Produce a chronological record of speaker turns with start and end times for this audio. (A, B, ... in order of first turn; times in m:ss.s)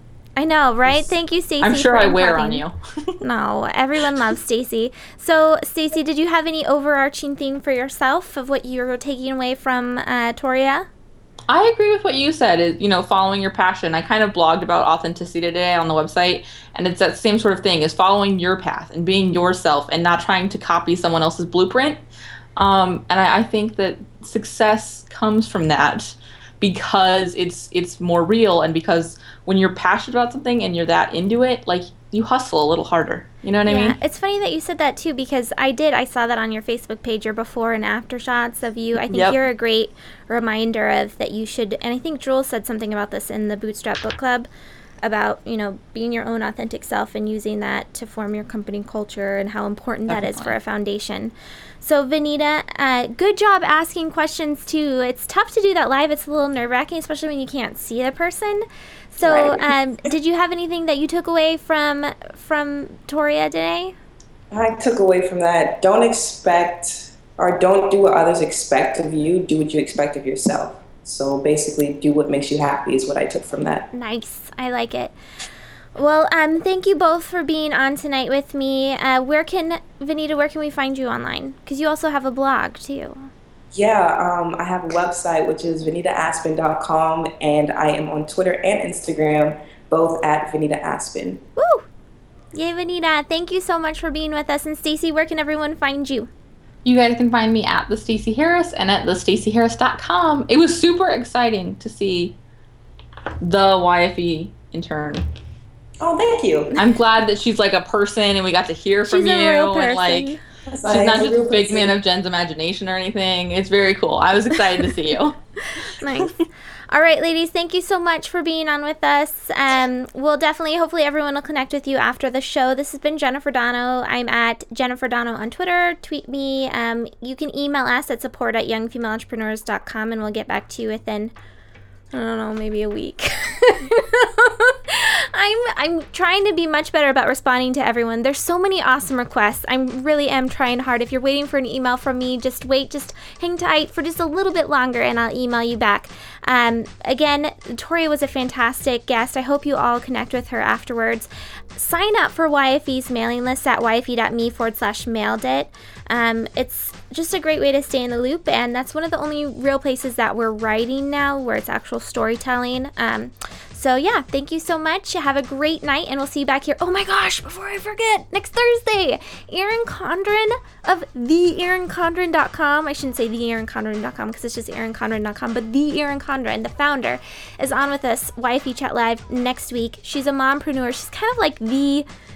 0:00.4-0:02.6 A
0:01.6-0:03.2 B
0:03.2-0:10.9 A
0:11.5-0:22.0 B
0:22.6-0:34.0 B
0:33.6-0:44.5 A
0:39.1-0:39.4 B
0:45.0-1:03.9 A
0:50.1-0:50.5 B
0:59.2-0:59.7 C
1:04.5-1:13.9 C
1:13.9-1:15.1 A
1:16.0-1:23.3 A
1:23.7-1:31.4 C
1:31.6-1:31.9 A
1:32.5-1:36.3 A
1:36.8-1:42.4 B
1:43.4-1:45.2 B
1:46.0-1:46.8 C
1:46.8-1:50.3 B
1:49.1-1:50.4 A
1:50.7-1:51.9 C
1:50.8-1:55.4 B
1:55.7-1:56.4 A
1:56.9-2:11.3 A
2:12.1-3:02.0 A